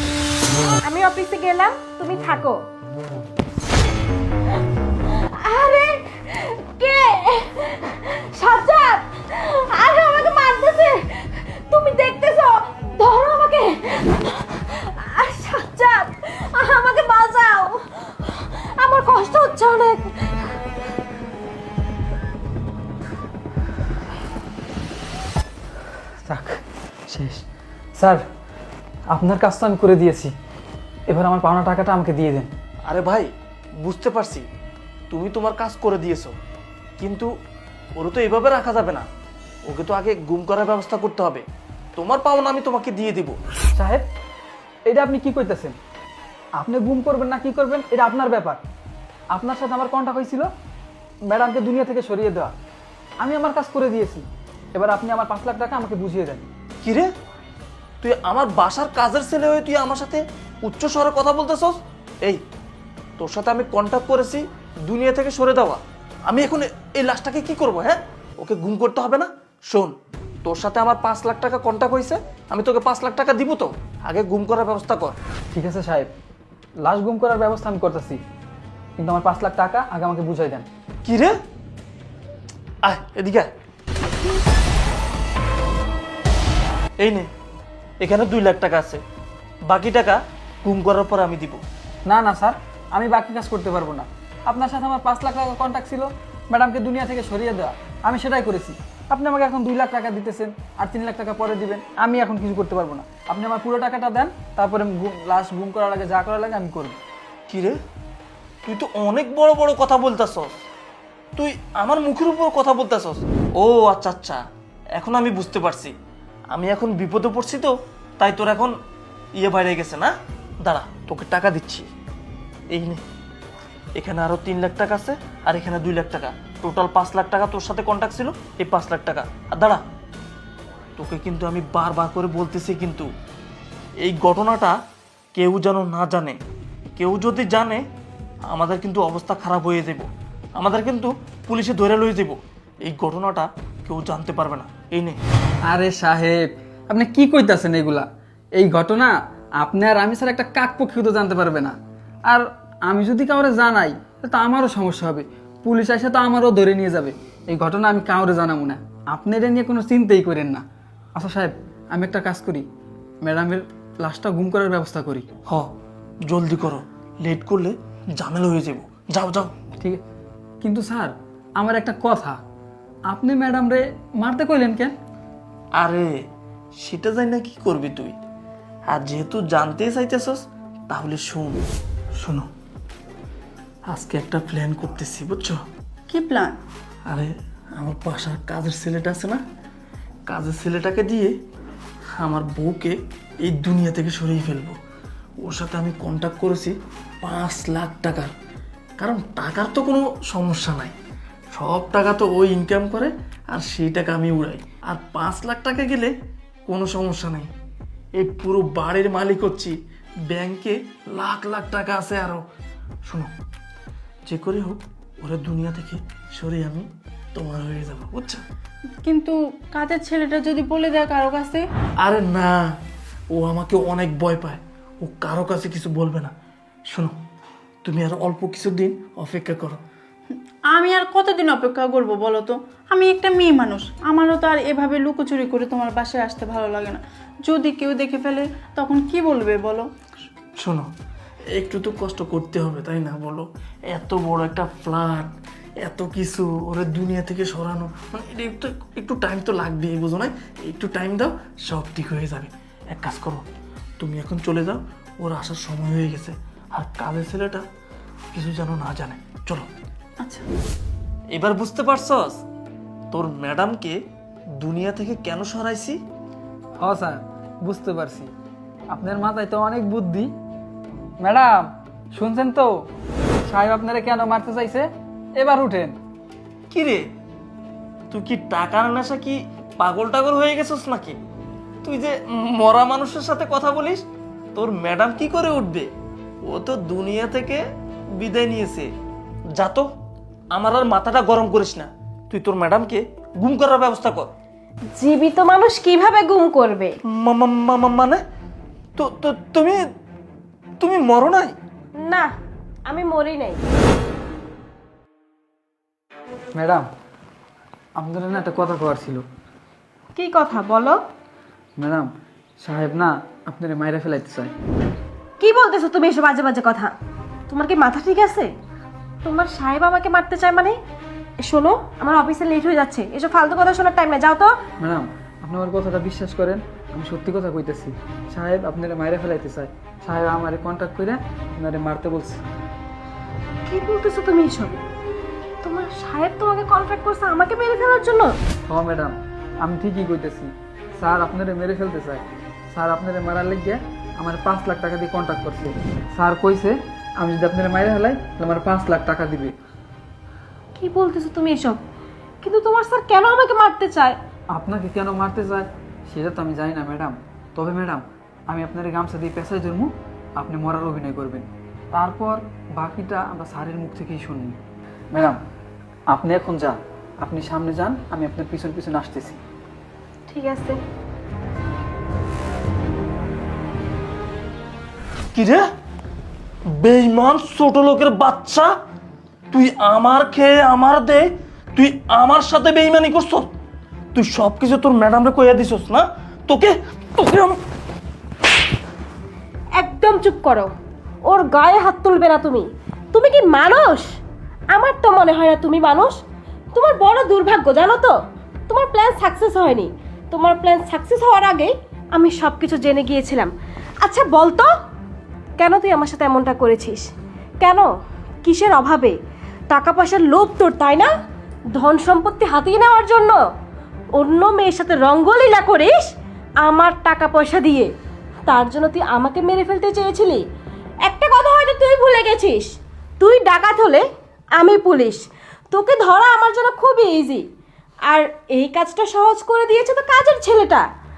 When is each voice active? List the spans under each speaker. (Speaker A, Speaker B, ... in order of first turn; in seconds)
Speaker A: 0.8-2.6, 5.1-20.4, 294.9-296.9, 302.0-302.3, 302.9-303.6, 310.1-311.0, 315.4-316.9, 317.5-318.5, 319.2-320.8, 321.4-324.5, 333.7-334.8, 335.6-338.4, 350.8-351.8, 352.4-354.2, 370.3-370.8, 389.8-390.7, 391.2-394.1, 394.7-396.2, 396.8-398.1, 398.7-404.7, 405.6-407.1, 407.6-407.9, 408.4-409.2, 409.7-411.1, 411.7-413.4, 414.2-416.1, 416.6-417.9, 418.5-420.4, 421.1-422.7, 423.2-424.0, 424.6-427.4, 428.1-430.8
Speaker B: 26.3-27.5, 28.0-28.2, 29.1-30.3, 31.1-32.5, 43.7-44.1, 44.9-45.8, 46.6-48.6, 49.3-50.5, 51.3-52.5, 53.2-56.5, 75.5-76.1, 76.8-78.2, 79.0-80.7, 92.1-107.0, 145.7-151.7, 152.3-160.7, 161.2-162.7, 163.2-165.3, 170.6-172.4, 173.1-174.9, 266.8-268.3, 268.9-270.3, 271.2-272.7, 273.5-275.9, 306.6-306.9, 308.0-309.2, 311.8-312.1, 312.6-314.5, 324.8-332.4, 338.7-349.5, 354.5-364.6, 365.1-365.4, 366.1-369.4
Speaker C: 32.9-33.3, 33.8-34.5, 35.1-36.4, 37.0-37.3, 38.0-39.0, 39.7-41.5, 42.0-43.4, 56.8-57.1, 58.0-62.4, 63.2-69.9, 70.5-75.2, 81.0-81.3, 82.8-83.5, 87.0-87.3, 88.0-89.0, 89.7-91.6, 107.5-107.8, 108.7-110.6, 111.4-114.4, 115.0-115.9, 116.5-118.7, 119.4-120.1, 120.6-121.9, 122.7-123.0, 124.0-129.8, 131.0-133.1, 134.0-134.8, 135.3-136.4, 137.0-137.8, 138.5-145.2, 166.2-169.5, 175.8-176.1, 176.8-178.2, 178.9-181.6, 182.2-182.5, 183.9-185.6, 187.1-189.4, 190.3-191.3, 192.2-194.8, 195.4-198.3, 199.0-200.9, 201.5-206.1, 206.7-207.5, 208.2-209.8, 210.3-212.4, 214.3-218.4, 222.0-222.6, 223.3-226.3, 227.8-229.8, 240.6-240.9, 241.5-253.4, 254.0-257.6, 258.3-259.7, 261.3-262.4, 263.1-264.0, 264.6-266.0, 276.7-277.1, 278.1-281.2, 281.8-285.9, 286.5-287.6, 288.2-288.9, 289.6-289.9, 290.5-294.3, 297.1-298.2, 299.0-299.8, 300.8-301.6, 375.3-375.6, 376.7-378.7, 379.5-383.5, 384.1-387.6
Speaker D: 186.1-186.6, 219.0-221.7, 230.7-239.9, 260.2-260.5